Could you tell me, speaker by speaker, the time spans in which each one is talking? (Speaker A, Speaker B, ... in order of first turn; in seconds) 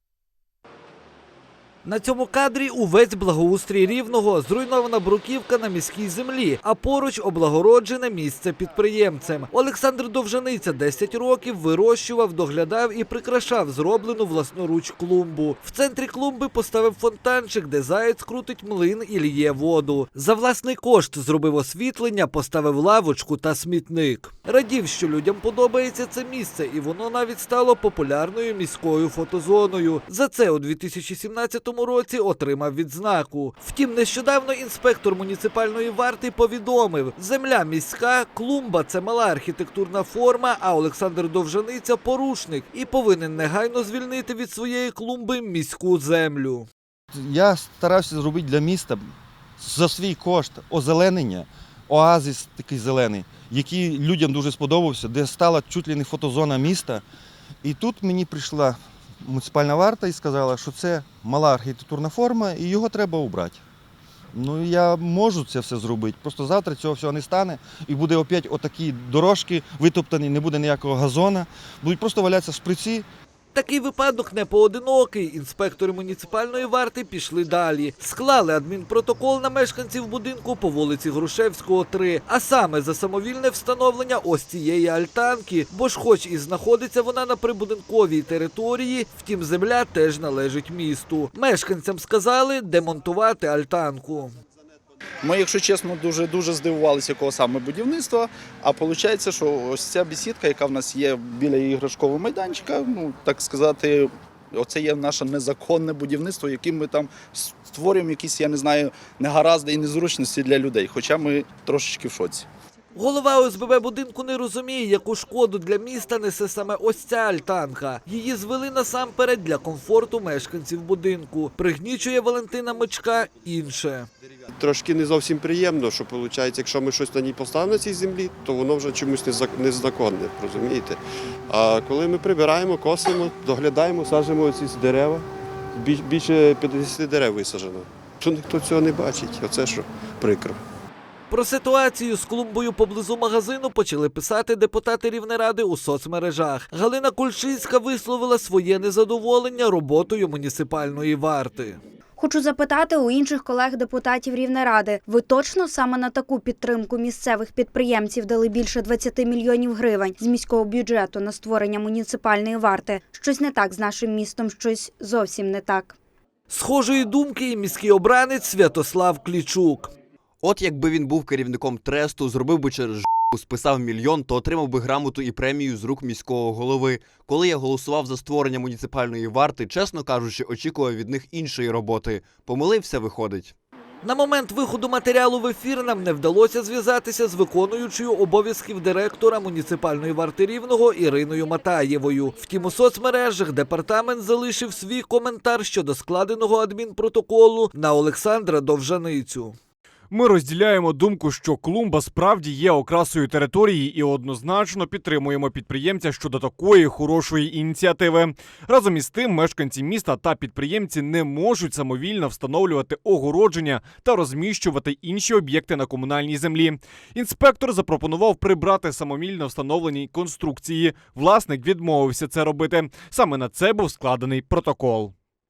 Speaker A: 1.8-46.7, 73.5-94.3, 113.0-124.1, 141.3-151.8, 166.5-169.9, 184.0-199.5
Speaker B: 47.1-57.0, 57.6-63.6, 64.3-73.0
Speaker C: 95.2-112.5
Speaker D: 124.5-140.6
Speaker E: 152.2-165.9
Speaker F: 170.4-183.5
Speaker G: 200.1-225.1